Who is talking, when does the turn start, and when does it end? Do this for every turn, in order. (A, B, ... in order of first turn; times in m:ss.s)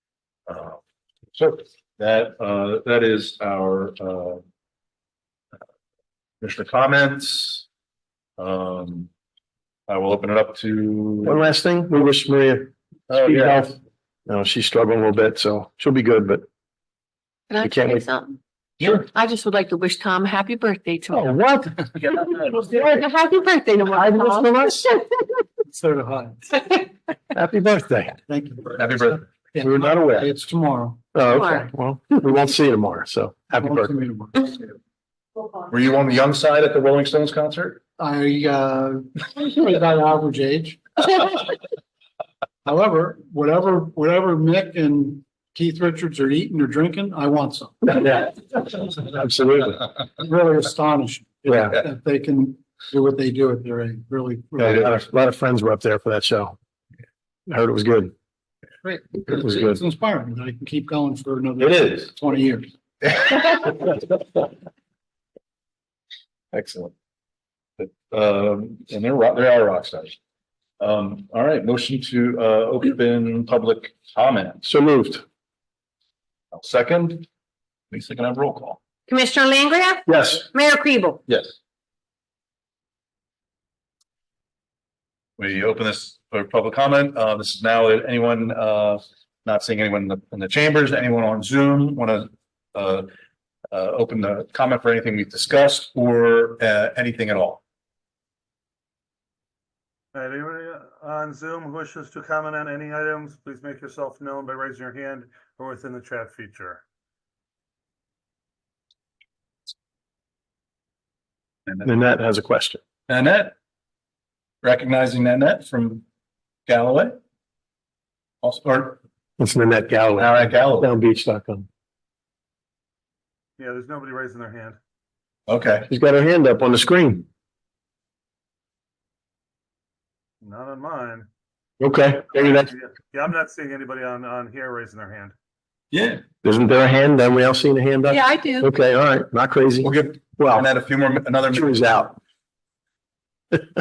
0:00.5-0:00.8 A
0:01.3-0:04.4 A
0:06.4-0:07.6 A
0:08.4-0:09.1 A
0:09.9-0:11.4 A
0:11.2-0:16.4 B
0:13.1-0:13.7 A
0:17.5-0:21.5 C
0:17.6-0:18.0 B
0:18.8-0:19.1 A
0:21.1-0:21.7 B
0:22.0-0:25.0 C
0:23.9-0:24.9 B
0:25.6-0:26.4 D
0:27.3-0:28.2 B
0:28.3-0:31.4 D
0:28.7-0:29.2 A
0:29.6-0:30.3 B
0:31.1-0:33.9 B
0:31.2-0:31.7 C
0:33.6-0:34.7 D
0:35.7-0:37.8 A
0:38.0-0:41.4 D
0:42.6-0:48.0 D
0:47.9-0:48.4 B
0:49.1-0:49.8 B
0:50.2-0:55.0 D
0:51.5-0:51.8 B
0:54.6-0:56.6 B
0:57.5-0:58.1 B
0:58.8-1:02.7 D
0:59.3-0:59.8 B
1:06.5-1:06.9 A
1:07.8-1:10.2 A
1:10.8-1:14.6 A
1:14.6-1:15.2 B
1:16.5-1:17.3 A
1:17.9-1:18.8 A
1:19.1-1:21.2 C
1:20.1-1:20.4 B
1:21.3-1:21.6 A
1:25.4-1:33.1 A
1:33.7-1:37.6 A
1:40.1-1:46.8 E
1:51.8-1:52.8 B
1:53.1-1:53.5 A
1:54.6-1:56.0 A
1:56.7-1:57.2 A
1:58.4-1:59.0 A
1:59.4-2:01.7 B
2:00.2-2:00.9 A
2:03.6-2:04.8 E
2:05.5-2:05.9 A
2:05.9-2:07.2 B
2:10.4-2:11.3 E
2:11.8-2:12.7 B
2:12.3-2:15.3 E
2:15.9-2:16.2 A
2:16.4-2:20.7 B
2:18.1-2:18.7 C
2:19.8-2:21.9 A
2:21.5-2:22.2 B